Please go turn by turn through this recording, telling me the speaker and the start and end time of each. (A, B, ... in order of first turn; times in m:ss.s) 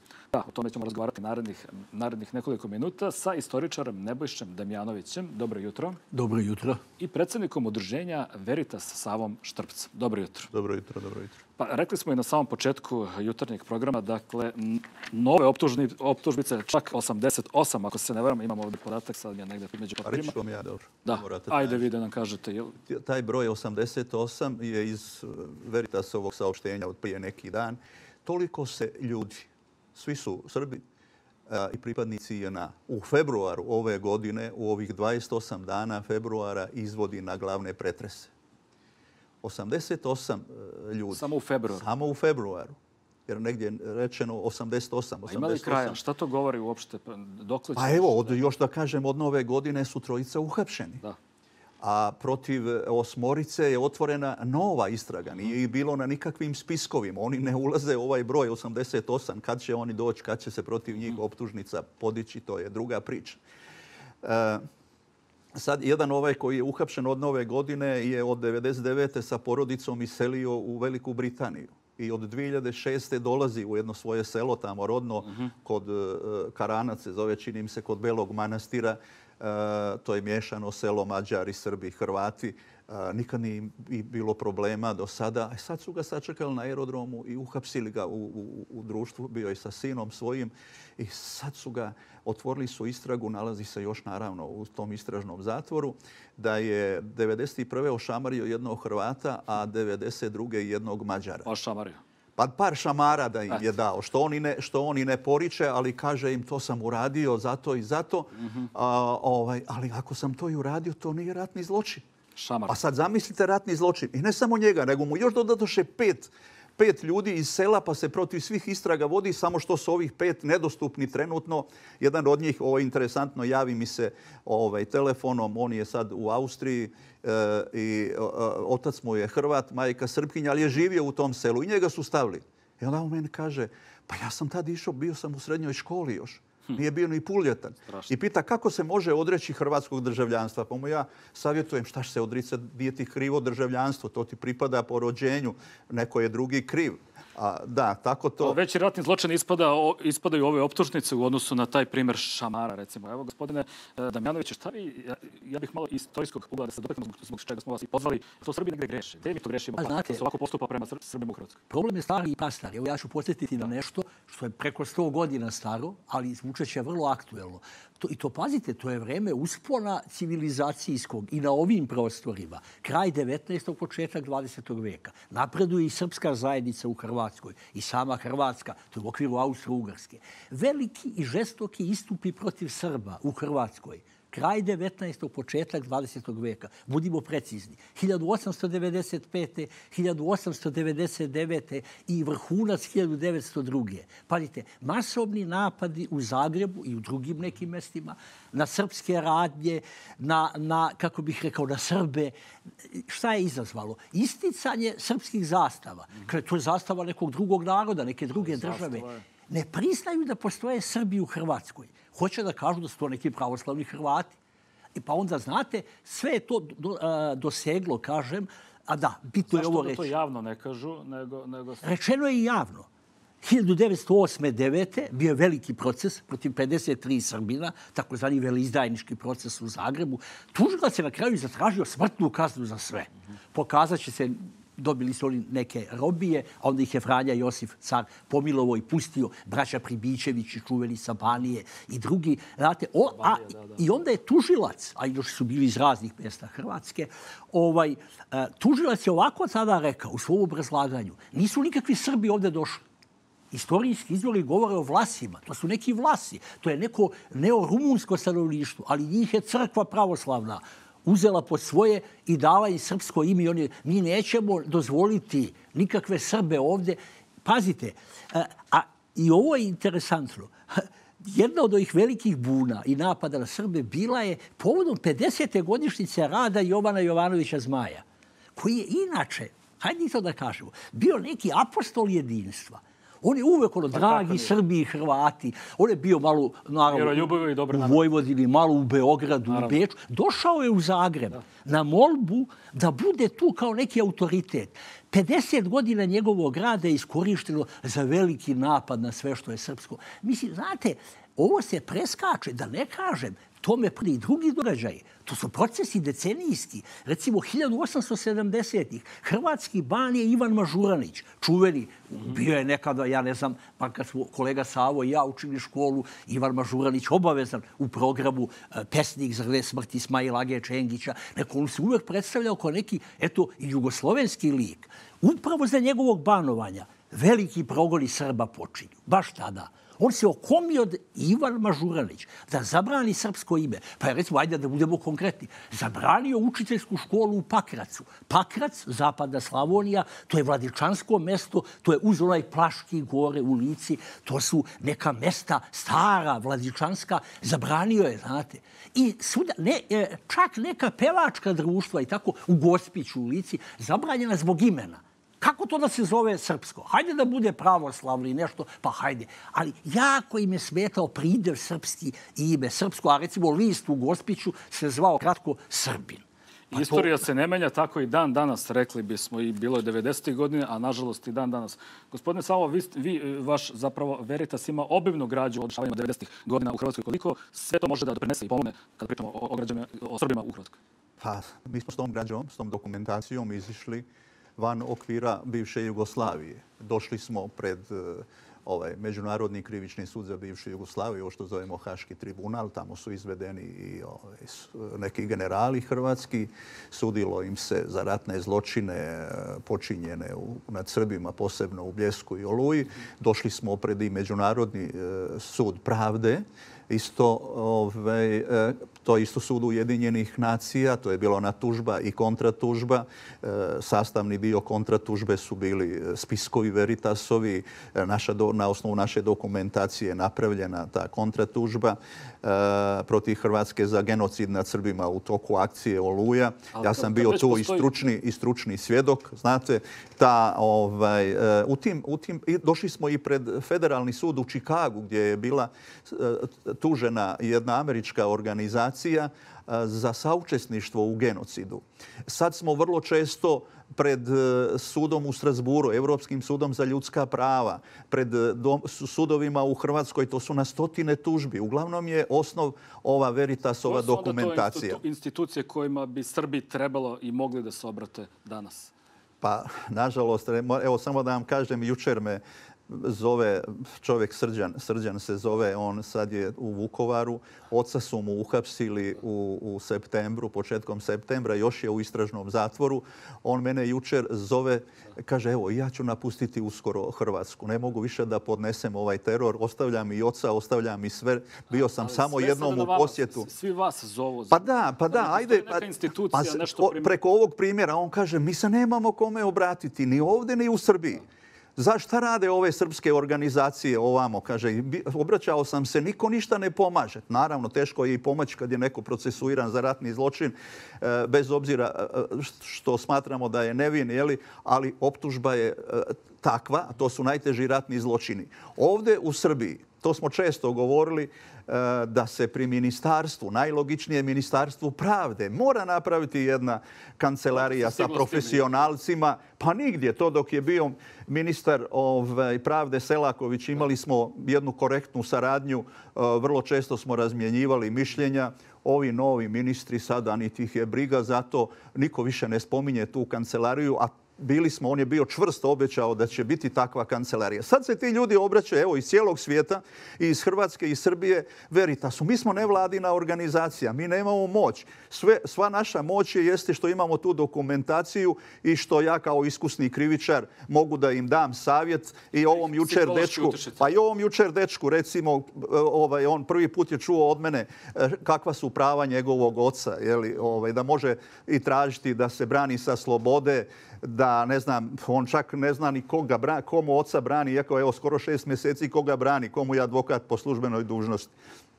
0:00.3-0:06.0 A
0:06.1-0:06.8 B
0:07.0-0:10.5 A
0:10.5-0:11.3 C
0:11.6-0:20.4 A
0:20.0-0:21.8 C
0:21.0-0:22.8 A
0:22.9-0:30.8 C
0:31.5-0:38.3 C
0:39.4-0:42.8 C
0:41.1-0:41.9 A
0:43.3-0:46.0 C
0:45.2-0:48.5 A
0:47.8-0:51.0 C
0:51.8-1:03.4 C
1:04.2-1:04.6 C
1:05.6-1:41.5 C
1:41.4-1:42.0 A
1:42.4-1:52.0 C
1:48.4-1:48.7 A
1:52.4-1:52.8 A
1:52.7-2:28.6 C
2:17.9-2:18.1 A
2:28.4-2:41.6 A
2:39.8-2:40.2 B
2:41.7-3:34.3 B
3:28.4-3:29.2 A
3:34.9-3:40.1 B
3:39.5-3:41.9 A
3:41.8-3:42.9 B
3:43.4-4:12.8 B
4:03.1-4:03.8 A
4:13.5-4:38.0 B
4:38.6-6:07.2 B
4:43.9-4:44.5 A
4:46.9-4:48.0 A
4:49.5-4:49.8 A
6:06.7-6:20.8 A
6:21.2-6:24.1 C
6:24.6-7:35.0 C
7:06.7-7:07.9 A
7:33.8-7:38.9 A
7:39.4-8:03.5 C
8:01.7-8:07.2 A
8:04.5-8:11.2 C
8:11.8-9:31.3 C
8:37.5-8:38.7 A
9:12.5-9:13.9 A